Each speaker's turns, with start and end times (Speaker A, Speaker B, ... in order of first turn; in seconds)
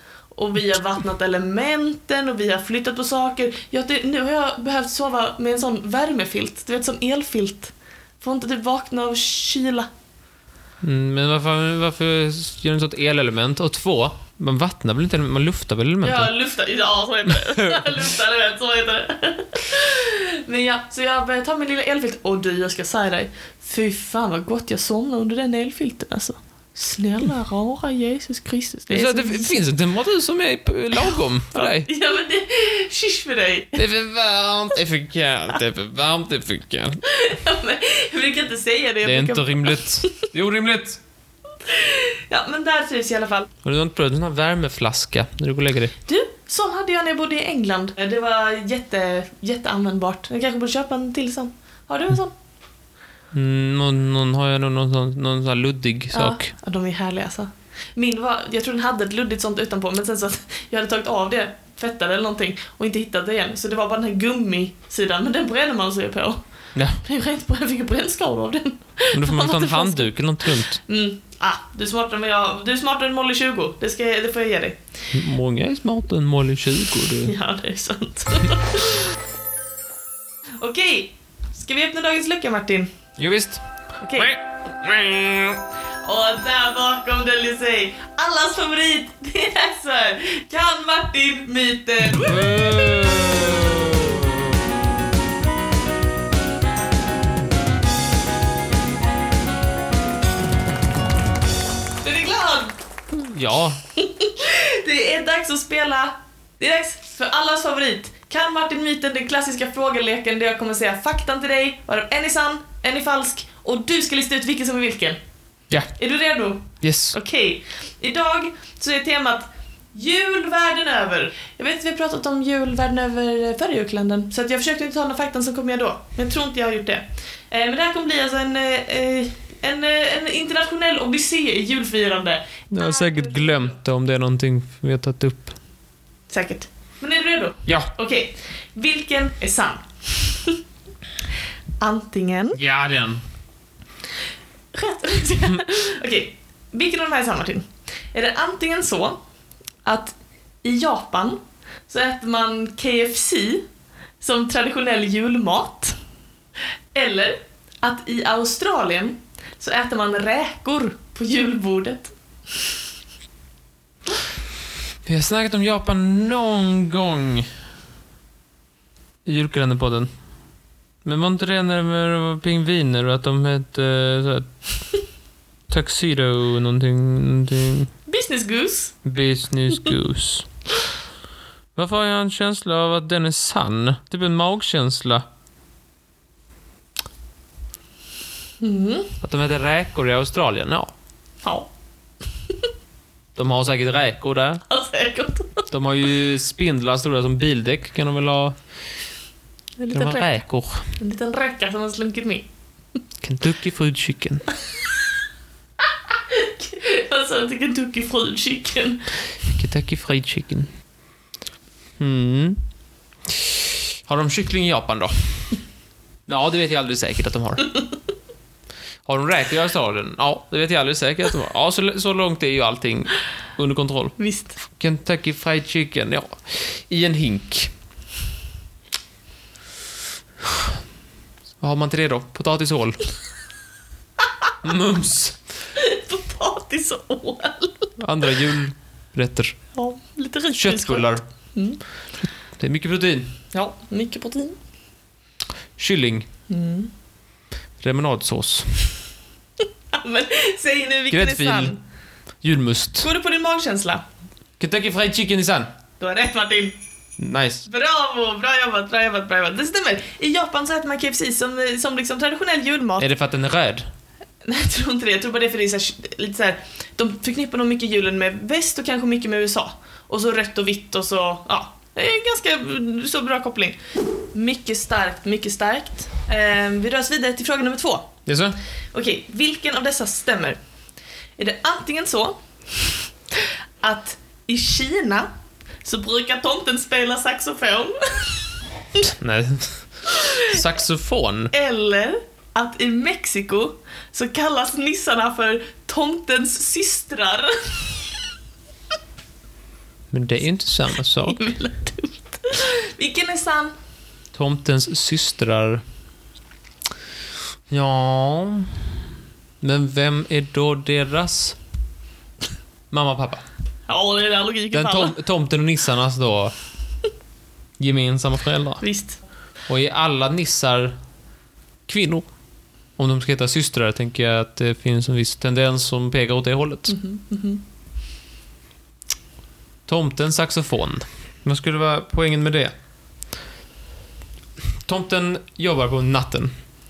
Speaker A: 0.3-9.9, 16.0-29.6, 31.5-33.8, 37.1-40.1, 41.6-43.5, 46.1-52.3, 56.1-66.4, 67.0-74.8, 77.2-79.2, 80.6-82.9, 84.0-84.3, 86.0-92.6, 102.0-102.8, 104.0-115.2, 116.0-133.8, 136.3-140.6, 141.8-142.6, 144.7-149.2, 149.8-153.6, 154.2-155.9, 156.9-162.1, 178.1-178.9, 188.6-189.1, 194.7-195.7, 199.8-200.4, 201.0-202.5, 206.1-209.1, 224.2-224.6, 235.8-237.9, 239.7-241.8, 243.5-244.6, 246.5-246.9, 249.9-251.8, 253.0-254.0, 256.0-256.8, 257.7-263.1, 264.4-273.8, 274.3-278.1, 278.9-280.6, 281.4-285.3, 285.8-289.1, 290.1-290.6, 291.5-298.2, 301.2-303.7, 313.9-315.1, 318.8-319.2, 326.9-327.6
Speaker B: 10.8-16.3, 28.9-31.9, 33.8-37.0, 39.0-41.0, 43.6-45.9, 53.3-56.5, 66.7-67.0, 69.1-70.8, 75.1-77.3, 83.2-83.6, 84.1-85.6, 92.2-94.3, 103.1-103.8, 116.8-117.2, 132.7-135.5, 137.7-137.9, 142.5-143.2, 165.1-167.5, 169.2-170.1, 171.0-174.5, 175.7-177.9, 179.0-180.5, 181.8-185.2, 189.2-190.9, 193.3-194.6, 195.7-198.5, 199.9-200.9, 203.2-204.5, 209.4-210.7, 212.0-212.6, 214.1-215.6, 216.3-217.7, 219.1-224.2, 224.7-227.7, 231.6-233.0, 234.6-235.4, 238.0-239.5, 240.5-241.2, 242.6-243.3, 245.8-246.2, 247.8-248.9, 251.1-251.8, 252.4-253.1, 254.6-255.7, 257.2-257.7, 263.0-263.9, 278.2-278.6, 289.2-291.5, 300.1-301.5, 304.3-305.8, 307.7-308.7, 309.6-311.6, 312.9-313.4, 314.7-316.5, 317.8-318.8, 319.7-320.9, 321.9-322.3, 323.0-326.9, 329.9-332.7, 334.9-336.5